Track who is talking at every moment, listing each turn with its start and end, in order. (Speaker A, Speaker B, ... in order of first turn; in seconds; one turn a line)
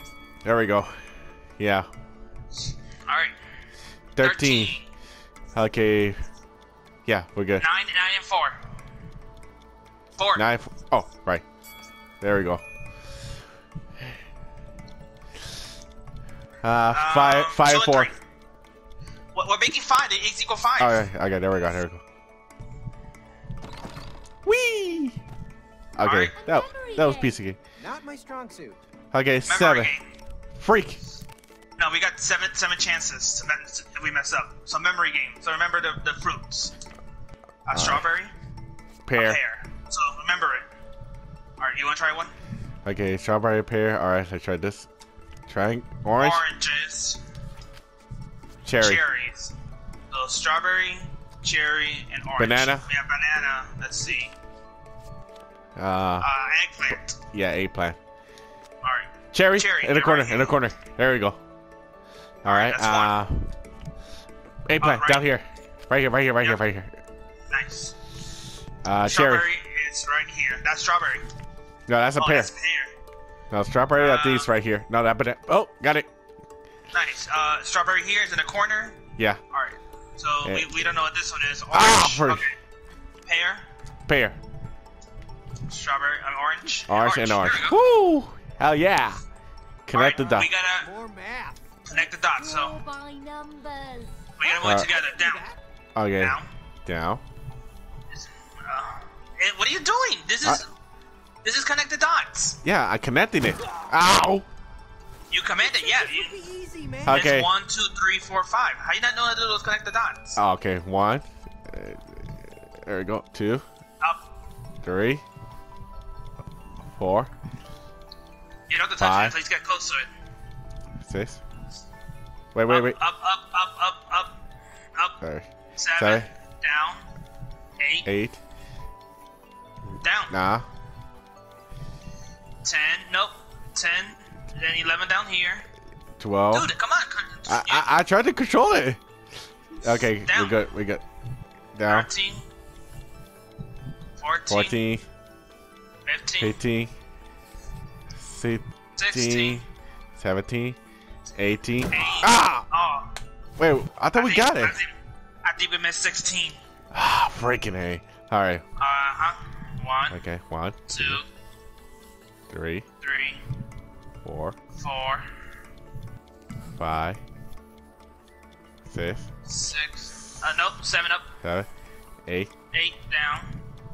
Speaker A: 0.4-1.0
Speaker A: 1.6-1.9
Speaker B: 3.1-3.4
Speaker A: 4.2-4.8
Speaker B: 4.2-4.9
Speaker A: 5.5-6.2
Speaker A: 7.1-7.7
Speaker B: 7.6-8.6
Speaker B: 10.2-10.4
Speaker A: 10.3-11.4
Speaker A: 12.2-12.6
Speaker A: 16.6-18.1
Speaker B: 16.9-18.1
Speaker B: 19.3-21.0
Speaker A: 20.8-22.0
Speaker A: 24.4-25.2
Speaker A: 25.9-27.6
Speaker B: 26.0-26.3
Speaker C: 26.4-27.4
Speaker D: 27.8-28.8
Speaker A: 29.1-29.9
Speaker B: 29.5-30.0
Speaker A: 30.6-31.0
Speaker B: 31.8-36.7
Speaker B: 37.7-38.3
Speaker A: 37.7-38.1
Speaker A: 39.0-39.4
Speaker B: 39.2-40.7
Speaker B: 41.6-42.3
Speaker A: 42.9-44.9
Speaker A: 45.5-46.4
Speaker B: 46.2-47.2
Speaker A: 48.6-49.0
Speaker B: 48.8-49.5
Speaker B: 50.1-54.3
Speaker A: 52.4-52.9
Speaker A: 55.8-56.3
Speaker B: 56.2-57.2
Speaker A: 57.3-58.0
Speaker B: 58.8-60.6
Speaker A: 59.3-61.4
Speaker B: 62.4-63.2
Speaker A: 62.4-63.5
Speaker A: 64.7-66.9
Speaker B: 64.8-65.3
Speaker B: 67.5-67.9
Speaker A: 68.8-69.5
Speaker B: 69.1-71.2
Speaker A: 71.9-72.5
Speaker B: 72.2-72.9
Speaker A: 73.5-76.1
Speaker B: 74.0-74.5
Speaker B: 76.9-82.6
Speaker A: 81.7-82.5
Speaker B: 83.3-83.7
Speaker A: 84.1-84.4
Speaker B: 85.7-87.8
Speaker A: 86.9-89.2
Speaker A: 89.9-90.5
Speaker B: 89.9-90.9
Speaker D: 90.6-91.7
Speaker B: 91.9-92.8
Speaker C: 92.3-94.3
Speaker B: 94.4-95.5
Speaker D: 94.4-95.6
Speaker A: 94.6-94.9
Speaker A: 96.0-97.2
Speaker B: 96.2-96.5
Speaker B: 98.1-100.7
Speaker B: 101.4-102.6
Speaker A: 102.6-104.5
Speaker B: 105.3-106.3
Speaker D: 105.6-107.2
Speaker A: 107.1-107.5
Speaker B: 107.1-110.4
Speaker A: 110.4-113.7
Speaker A: 114.8-115.2
Speaker A: 116.9-117.3
Speaker B: 118.7-120.1
Speaker A: 119.0-119.4
Speaker A: 121.0-121.4
Speaker A: 122.5-123.0
Speaker B: 122.7-124.3
Speaker A: 125.2-126.3
Speaker B: 125.8-127.1
Speaker B: 127.8-128.1
Speaker A: 128.1-128.4
Speaker B: 130.0-130.3
Speaker A: 130.3-130.7
Speaker B: 132.6-135.7
Speaker A: 136.2-136.7
Speaker B: 136.5-137.9
Speaker A: 137.5-139.0
Speaker A: 139.8-141.0
Speaker B: 140.3-140.6
Speaker A: 141.8-142.1
Speaker B: 141.9-142.5
Speaker B: 144.2-144.8
Speaker A: 144.5-145.1
Speaker B: 146.1-146.6
Speaker A: 146.4-146.9
Speaker A: 148.2-149.6
Speaker B: 149.0-149.6
Speaker A: 150.2-150.8
Speaker A: 151.4-152.7
Speaker B: 151.9-153.1
Speaker A: 153.6-154.8
Speaker B: 154.2-154.9
Speaker B: 155.4-156.6
Speaker A: 156.9-158.6
Speaker B: 158.8-160.2
Speaker A: 160.1-161.2
Speaker B: 160.9-161.3
Speaker A: 162.5-162.9
Speaker B: 163.0-163.4
Speaker A: 164.2-164.6
Speaker B: 164.8-165.2
Speaker A: 166.8-167.2
Speaker A: 168.9-169.3
Speaker B: 169.5-171.3
Speaker A: 171.4-171.7
Speaker A: 172.3-172.5
Speaker B: 172.7-173.6